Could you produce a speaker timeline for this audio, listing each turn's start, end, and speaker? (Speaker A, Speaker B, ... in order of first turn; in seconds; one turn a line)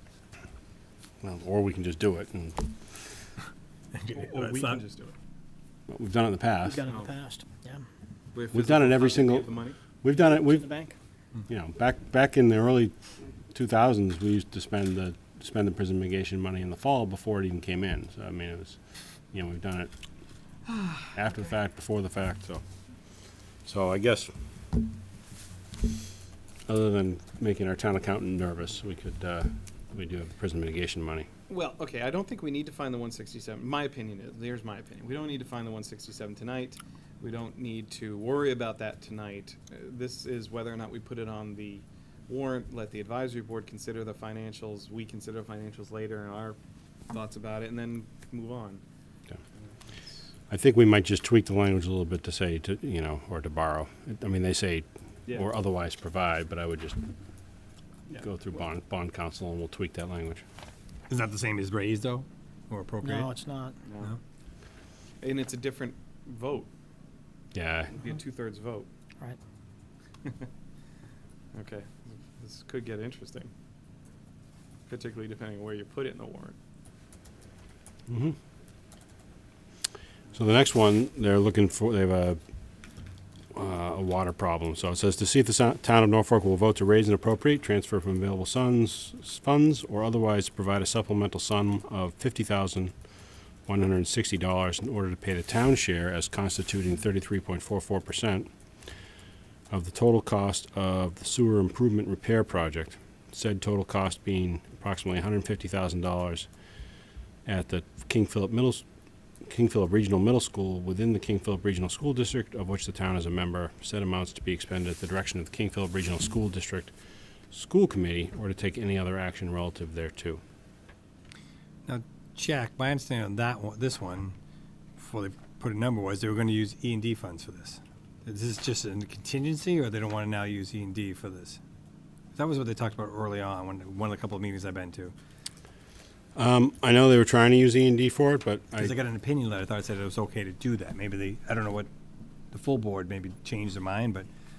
Speaker A: 1.2-3.0
Speaker B: 3.9-4.8
Speaker C: 4.1-5.1
Speaker A: 5.9-6.8
Speaker D: 6.6-7.8
Speaker C: 6.8-7.1
Speaker C: 8.3-9.8
Speaker A: 8.5-10.7
Speaker D: 10.1-10.9
Speaker A: 11.5-19.9
Speaker A: 21.1-22.6
Speaker A: 23.6-24.3
Speaker A: 26.7-31.3
Speaker C: 31.5-46.6
Speaker C: 47.1-48.8
Speaker A: 50.5-57.0
Speaker A: 58.1-60.4
Speaker B: 61.1-63.3
Speaker D: 63.0-63.8
Speaker C: 63.8-64.2
Speaker C: 65.2-66.7
Speaker A: 67.5-68.0
Speaker C: 67.9-68.9
Speaker C: 71.5-73.5
Speaker C: 74.9-76.5
Speaker A: 78.1-78.3
Speaker A: 80.3-82.4
Speaker A: 83.5-92.9
Speaker A: 93.7-98.5
Speaker A: 99.7-106.5
Speaker A: 107.5-108.8
Speaker A: 109.4-116.9
Speaker A: 117.5-120.4
Speaker B: 121.8-124.3
Speaker B: 125.0-131.6
Speaker B: 132.3-135.1
Speaker A: 136.3-138.9
Speaker B: 138.8-141.9
Speaker B: 142.5-144.3